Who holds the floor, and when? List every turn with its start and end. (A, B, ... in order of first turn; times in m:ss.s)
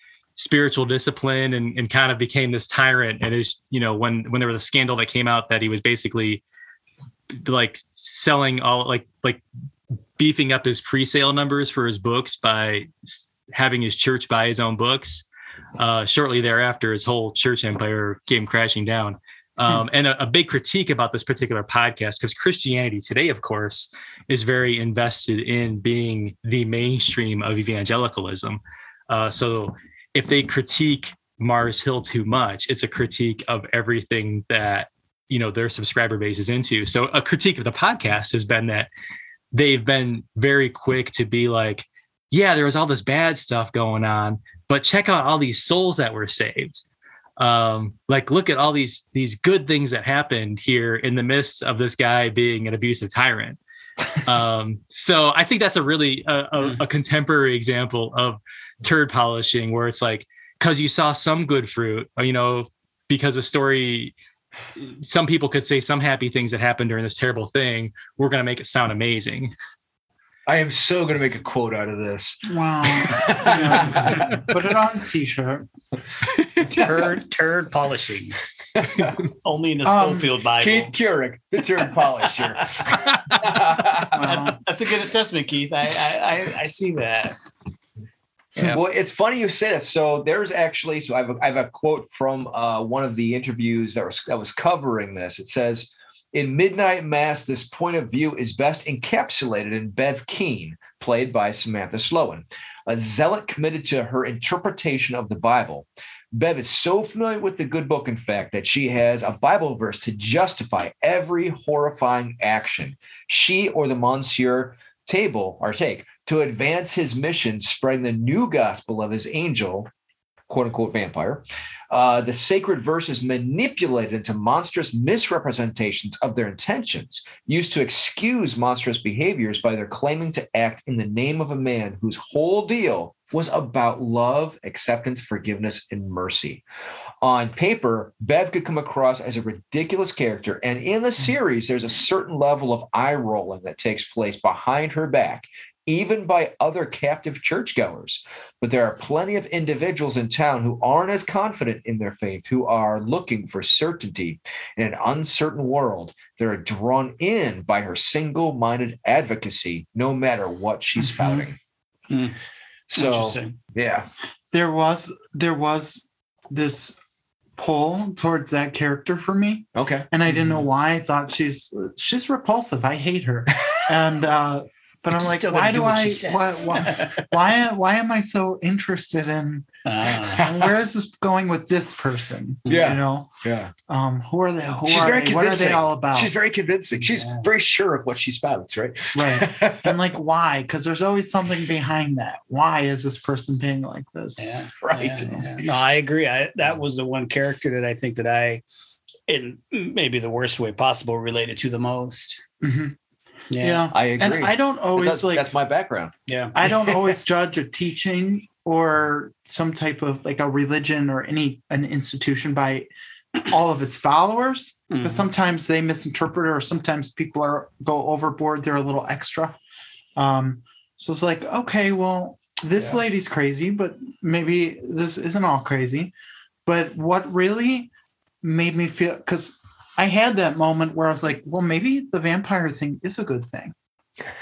0:00.4-0:06.4 A
0:07.3-0:09.4 A
0:10.2-0:15.2 A
0:15.8-0:38.9 A
0:39.5-0:46.8 A
0:47.4-0:53.6 A
0:54.1-1:04.1 A
1:04.8-1:09.5 A
1:10.5-1:14.3 B
1:12.5-1:15.7 C
1:16.7-1:18.4 D
1:18.7-1:19.3 B
1:19.4-1:20.9 D
1:19.8-1:20.3 C
1:20.6-1:24.3 B
1:23.1-1:23.4 A
1:24.1-1:24.6 C
1:24.1-1:27.3 D
1:28.6-1:59.9 B
2:00.5-2:16.6 B
2:17.2-2:41.6 B
2:41.0-2:41.5 C
2:42.1-2:42.4 D
2:42.9-2:44.1 B
2:43.0-2:43.6 D
2:44.5-2:47.0 C
2:47.6-2:59.7 C
2:49.7-2:50.1 B
2:55.1-2:57.2 D
2:59.8-3:00.5 D
3:00.3-3:03.3 C
3:00.4-3:00.7 B
3:02.6-3:03.7 B
3:03.9-3:06.3 C
3:04.6-3:10.0 B
3:07.0-3:07.5 D
3:09.1-3:14.4 C
3:14.4-3:18.6 D
3:14.8-3:15.6 B
3:19.3-3:22.4 D
3:22.6-3:23.0 C
3:23.5-3:23.9 D
3:23.6-3:25.4 C
3:23.9-3:27.2 B
3:26.3-3:26.5 D
3:26.5-3:39.6 C
3:34.9-3:35.3 D
3:40.2-3:46.1 C
3:46.6-3:47.9 C
3:48.4-3:53.7 C